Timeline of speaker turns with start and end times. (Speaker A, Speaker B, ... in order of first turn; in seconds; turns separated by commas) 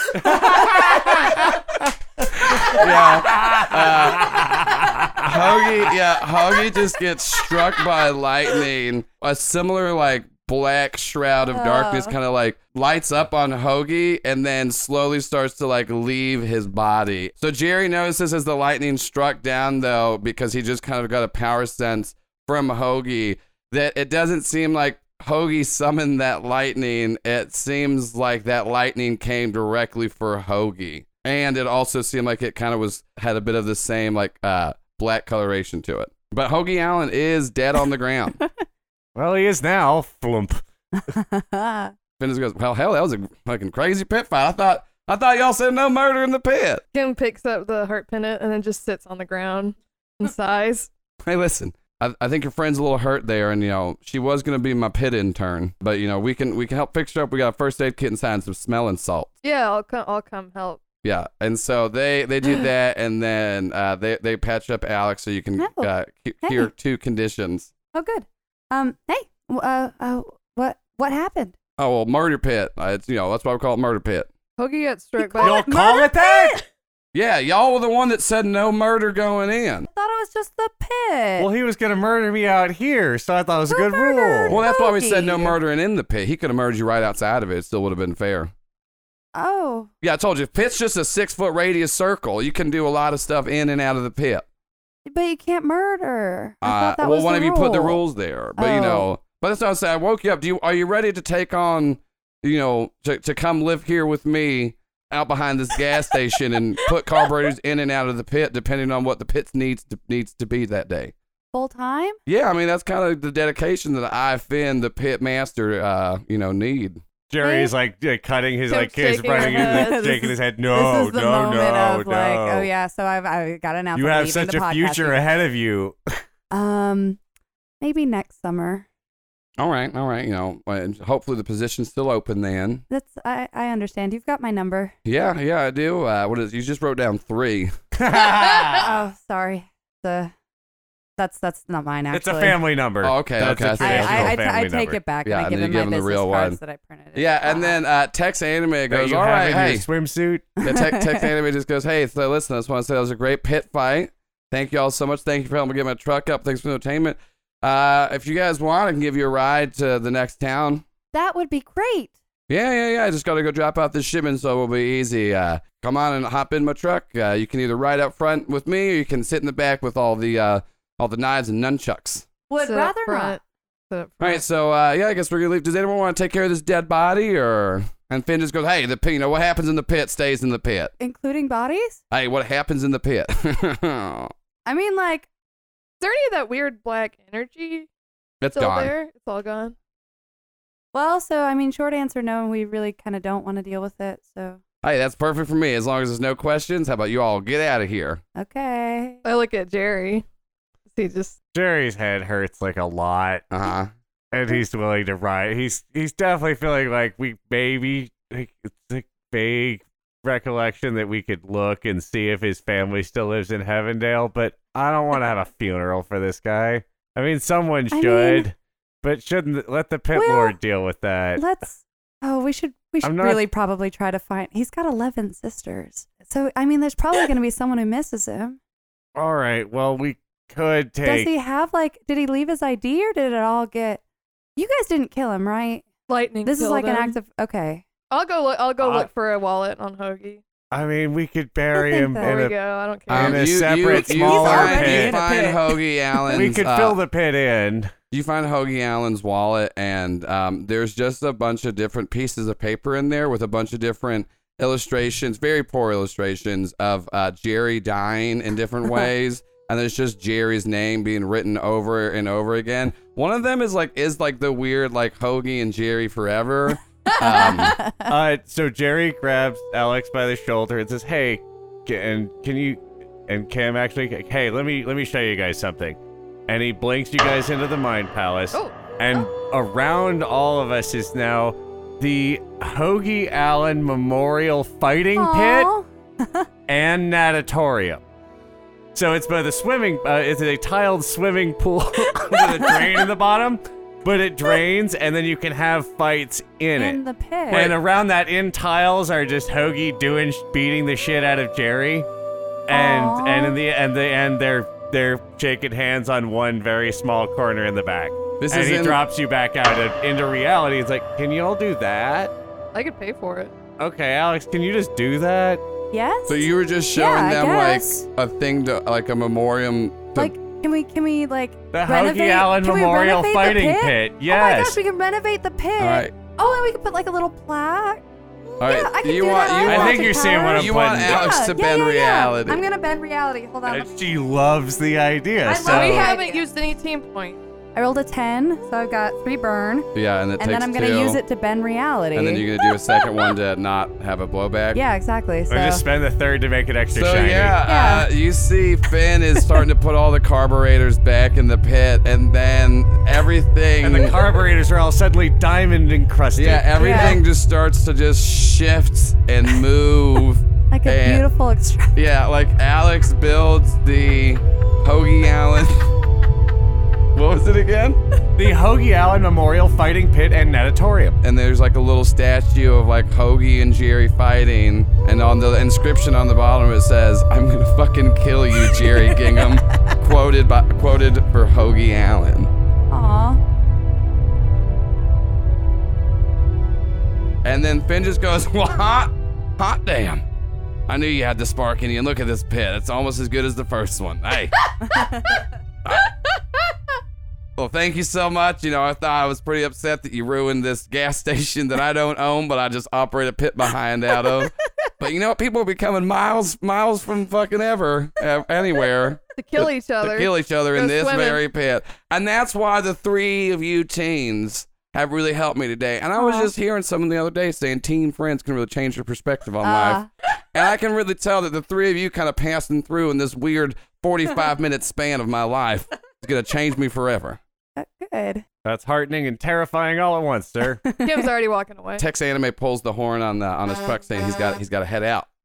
Speaker A: 0.2-1.4, Speaker A: 2.7-5.2, Speaker B: 2.7-4.4, Speaker B: 5.2-38.4, Speaker C: 11.5-12.1, Speaker A: 39.2-40.6, Speaker C: 41.0-41.9, Speaker B: 42.2-46.8, Speaker D: 46.9-50.9, Speaker B: 51.2-59.3, Speaker D: 59.4-60.8, Speaker B: 61.0-67.7, Speaker C: 65.6-65.9, Speaker C: 66.4-66.7, Speaker C: 67.9-71.5, Speaker B: 71.8-74.3, Speaker D: 74.6-75.7, Speaker C: 75.2-76.6, Speaker A: 75.4-76.6, Speaker B: 77.1-79.9, Speaker C: 79.9-81.5, Speaker A: 81.4-84.6, Speaker C: 83.7-85.6, Speaker B: 84.5-88.5, Speaker C: 89.3-89.9, Speaker B: 90.0-94.5, Speaker C: 95.1-98.0, Speaker B: 96.6-111.1, Speaker C: 98.6-99.1, Speaker C: 111.5-112.2, Speaker B: 112.3-117.0, Speaker A: 117.3-122.7, Speaker C: 117.4-117.7, Speaker D: 118.7-120.3, Speaker C: 119.3-125.2, Speaker A: 124.0-126.0, Speaker C: 126.5-127.2, Speaker C: 127.8-128.9, Speaker B: 129.6-132.8, Speaker C: 132.9-134.9, Speaker B: 135.1-137.7, Speaker A: 137.9-138.9, Speaker C: 138.8-140.3, Speaker C: 141.2-142.6, Speaker A: 142.1-145.0, Speaker B: 143.0-144.4, Speaker C: 143.8-147.8, Speaker B: 145.2-146.6, Speaker B: 147.1-149.9, Speaker A: 148.9-150.5, Speaker B: 150.6-160.8, Speaker C: 150.6-151.3, Speaker C: 161.1-162.1, Speaker B: 162.5-172.3, Speaker C: 172.5-173.4, Speaker D: 172.6-174.4, Speaker B: 174.2-180.9, Speaker C: 181.0-182.0, Speaker B: 182.1-184.3, Speaker C: 184.7-185.3, Speaker D: 186.0-187.9, Speaker B: 188.4-188.9, Speaker D: 188.5-189.8, Speaker C: 190.9-194.6, Speaker B: 194.8-198.2, Speaker C: 198.4-199.2, Speaker D: 199.2-200.2, Speaker D: 200.9-201.3, Speaker A: 201.5-203.5, Speaker B: 203.5-203.9, Speaker A: 204.3-221.4, Speaker C: 217.9-218.5, Speaker C: 220.1-220.6, Speaker C: 221.4-228.6, Speaker A: 223.0-223.4, Speaker A: 229.2-231.3, Speaker C: 231.0-234.0, Speaker C: 234.6-235.9, Speaker D: 236.1-237.2, Speaker C: 236.4-237.8, Speaker D: 238.1-240.4, Speaker A: 238.8-239.1, Speaker A: 240.7-242.6, Speaker C: 241.7-242.4, Speaker D: 242.2-243.5, Speaker A: 243.1-245.2, Speaker B: 243.1-247.0, Speaker C: 243.9-246.5, Speaker A: 246.3-247.9, Speaker B: 248.1-267.8, Speaker C: 267.1-268.1, Speaker A: 268.1-285.7, Speaker D: 278.5-279.2, Speaker C: 285.1-286.5, Speaker A: 286.7-288.0, Speaker A: 288.9-302.1, Speaker C: 292.1-293.0, Speaker C: 296.8-297.8, Speaker A: 302.7-312.3, Speaker C: 302.7-303.6, Speaker B: 308.4-309.0, Speaker D: 312.7-313.5, Speaker A: 313.8-315.6, Speaker C: 315.9-318.1, Speaker B: 316.3-320.3, Speaker C: 320.1-333.9, Speaker A: 321.7-324.8, Speaker B: 325.8-326.1, Speaker B: 328.6-332.6, Speaker A: 329.6-331.4, Speaker A: 333.7-336.1, Speaker C: 335.5-336.4, Speaker D: 335.5-337.4, Speaker C: 337.8-339.9, Speaker B: 339.9-341.2, Speaker C: 340.4-342.5, Speaker B: 342.1-344.8, Speaker C: 344.7-345.9, Speaker A: 345.5-347.6, Speaker B: 346.9-354.2, Speaker C: 347.7-348.1, Speaker A: 353.8-357.1, Speaker B: 356.4-361.2, Speaker C: 356.8-357.2, Speaker C: 360.7-361.9, Speaker B: 361.9-365.9, Speaker B: 367.1-368.0, Speaker A: 368.4-371.2, Speaker B: 371.2-382.5, Speaker C: 382.9-383.4, Speaker B: 387.4-390.2, Speaker B: 390.9-394.5, Speaker C: 394.9-395.4, Speaker B: 397.6-420.0, Speaker D: 409.4-411.4, Speaker C: 416.2-416.5, Speaker C: 419.6-420.1, Speaker B: 420.5-427.4, Speaker C: 427.8-428.4, Speaker A: 428.6-430.8, Speaker C: 430.9-431.2, Speaker D: 431.0-432.1, Speaker B: 432.0-435.3